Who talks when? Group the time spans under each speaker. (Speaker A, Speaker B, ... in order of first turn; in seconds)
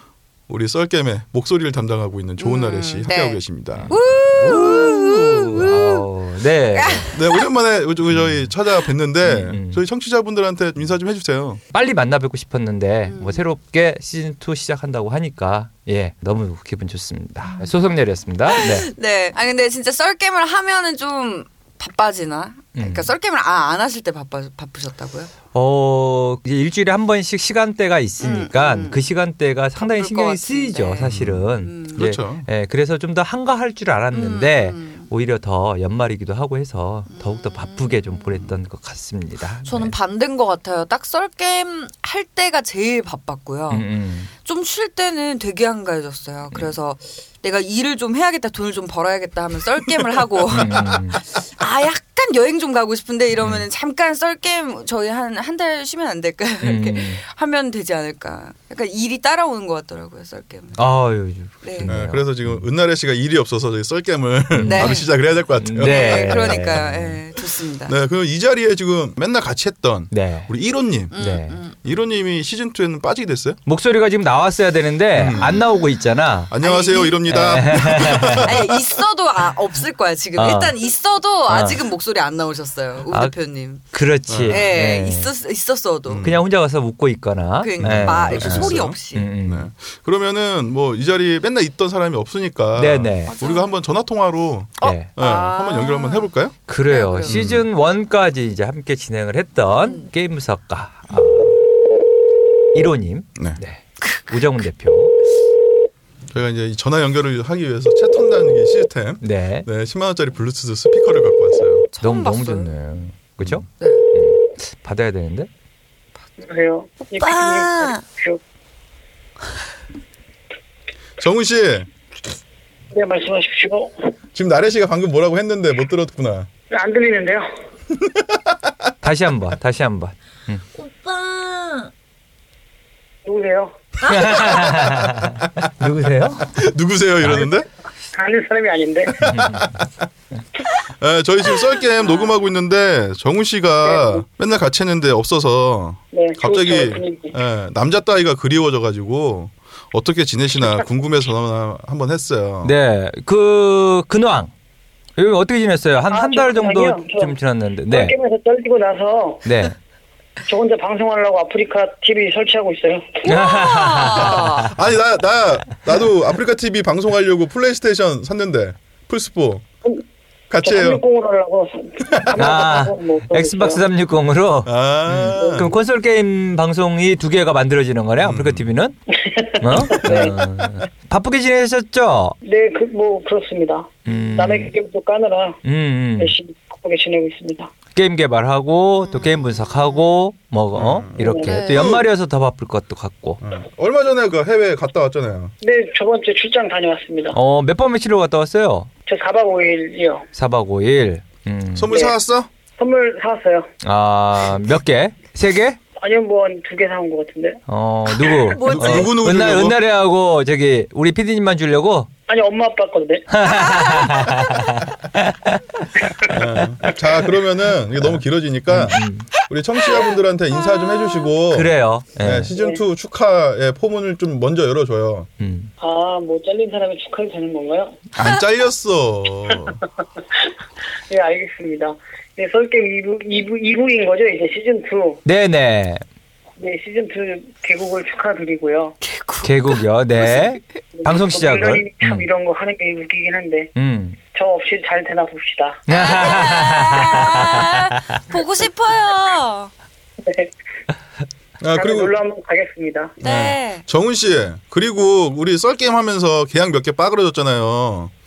Speaker A: 0.5-5.7, 7.1-11.6, 31.0-32.5, 61.9-66.9, 67.9-71.1, 71.8-73.6, 75.1-75.6, 76.5-78.8, 84.3-84.7, 86.1-86.4, 87.8-96.5, 97.3-97.7, 106.3-111.9, 113.4-113.7, 121.2-121.9, 124.3-126.5, 127.9-128.7, 134.8-135.7, 136.4-137.7, 139.1-140.1, 140.9-152.7, 164.2-169.6, 170.5-171.0, 172.0-172.6, 174.7-175.7, 178.2-178.7, 180.0-180.4, 190.7-192.1, 193.4-195.5, 201.8-202.5, 208.6-209.8, 216.3-225.3, 228.2-229.8, 251.6-252.1, 253.2-258.1
Speaker B: 2.4-6.0, 6.7-7.5, 13.1-13.4, 18.5-25.3, 28.2-29.1, 29.8-32.0, 34.1-35.1, 37.1-38.5, 39.6-43.9, 44.4-60.9, 61.6-61.9, 64.6-65.1, 65.8-68.0, 71.1-71.8, 75.3-75.8, 76.6-77.5, 78.3-83.9, 84.5-86.3, 87.6-89.3, 93.3-93.7, 94.8-96.3, 96.9-97.4, 99.8-100.1, 104.0-104.6, 111.9-112.7, 113.8-114.0, 117.1-118.0, 130.8-131.9, 163.2-164.7, 189.1-190.0, 191.4-192.0, 208.2-209.2, 213.5-214.6, 219.8-221.3, 239.0-240.6, 245.9-249.7, 253.2-253.8
Speaker C: 3.7-7.1, 8.1-8.5, 9.2-9.8, 11.7-18.9, 22.7-23.1, 25.5-39.9, 43.7-44.3, 50.5-51.2, 53.4-53.6, 56.6-57.2, 60.8-62.6, 64.5-65.0, 65.6-67.2, 70.1-70.5, 71.1-71.6, 73.7-76.5, 77.3-78.5, 80.4-80.8, 81.5-81.8, 83.9-85.3, 86.2-89.7, 92.7-93.3, 94.8-95.1, 96.7-101.6, 102.7-105.2, 109.2-109.7, 112.0-115.5, 129.0-130.6, 134.0-136.5, 139.2-139.8, 152.6-154.5, 155.2-158.1, 159.4-159.8, 163.2-164.7, 172.4-178.9, 179.6-182.3, 184.1-184.7, 185.6-186.3, 187.9-193.4, 197.3-198.9, 200.3-201.9, 203.8-205.8, 207.7-212.1, 213.3-215.9, 218.0-219.3, 221.5-222.5, 225.4-225.7, 235.2-236.0, 239.4-242.2, 243.8-244.2, 245.9-248.0
Speaker D: 116.4-118.4, 122.9-123.9, 126.7-127.5, 133.2-133.7, 138.1-139.2, 143.8-144.2, 146.1-147.3, 156.1-157.4, 157.9-159.5, 160.4-163.4, 170.6-173.8, 175.3-175.8, 179.1-180.3, 182.4-185.6, 186.2-187.7, 191.2-191.5, 195.6-197.4, 199.1-200.2, 201.9-202.1, 202.8-203.7, 206.0-207.6, 212.3-213.3, 222.5-222.8, 225.8-227.9, 231.1-235.2, 236.6-238.9, 241.0-243.7, 244.3-245.8, 250.2-250.5, 251.7-253.1